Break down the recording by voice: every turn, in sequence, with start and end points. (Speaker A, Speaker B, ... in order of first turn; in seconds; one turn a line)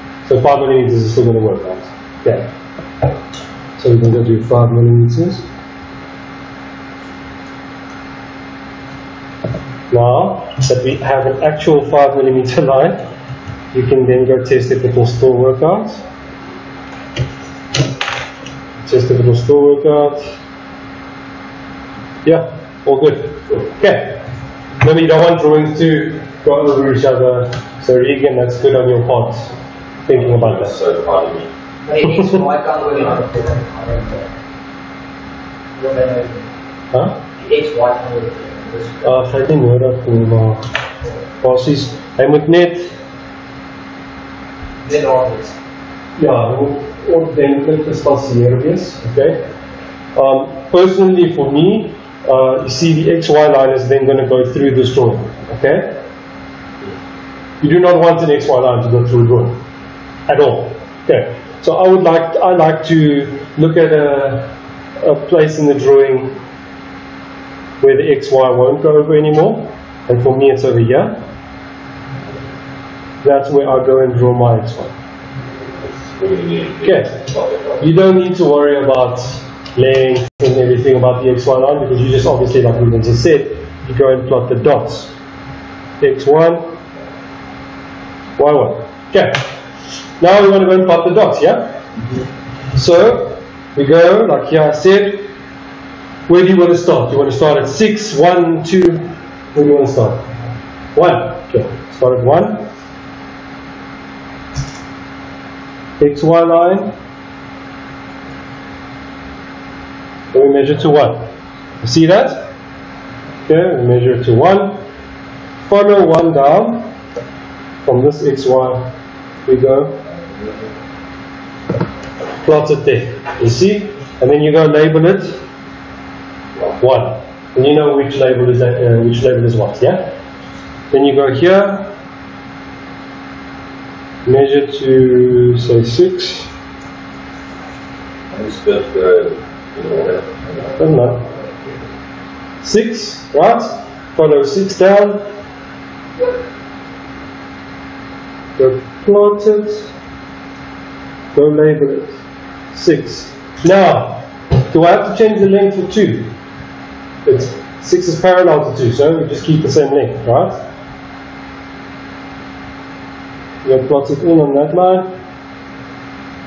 Speaker A: 0.2-2.5
Speaker A: 3.8-5.5
Speaker A: 9.9-13.0
Speaker A: 13.7-16.0
Speaker A: 18.8-20.3
Speaker A: 22.2-24.2
Speaker A: 24.8-29.5
Speaker A: 30.1-30.8
Speaker B: 30.1-31.5
Speaker C: 31.8-34.3
Speaker C: 35.8-36.5
Speaker A: 36.9-37.2
Speaker C: 37.4-39.2
Speaker A: 39.0-40.7
Speaker A: 41.4-42.9
Speaker C: 44.8-45.5
Speaker A: 46.2-49.4
Speaker A: 50.1-56.0
Speaker A: 57.6-59.6
Speaker A: 60.3-66.4
Speaker A: 67.8-71.2
Speaker A: 73.2-74.9
Speaker B: 75.8-77.9
Speaker A: 76.8-77.2
Speaker A: 77.8-85.1
Speaker A: 86.0-86.8
Speaker A: 88.4-89.5
Speaker A: 90.2-91.8
Speaker A: 92.7-95.3
Speaker A: 96.3-100.3
Speaker A: 100.9-102.7
Speaker A: 106.0-106.9
Speaker A: 110.3-111.3
Speaker A: 111.8-112.5
Speaker A: 113.5-114.8
Speaker A: 115.6-116.9
Speaker A: 117.8-118.9
Speaker A: 119.5-120.0
Speaker A: 122.4-125.4
Speaker A: 126.8-130.1
Speaker A: 130.9-131.9
Speaker A: 134.2-136.5
Speaker B: 138.3-140.8
Speaker A: 140.8-141.3
Speaker A: 142.6-145.3
Speaker A: 148.6-149.9
Speaker A: 151.3-152.2
Speaker A: 152.7-156.3
Speaker A: 157.2-160.6
Speaker A: 163.6-165.1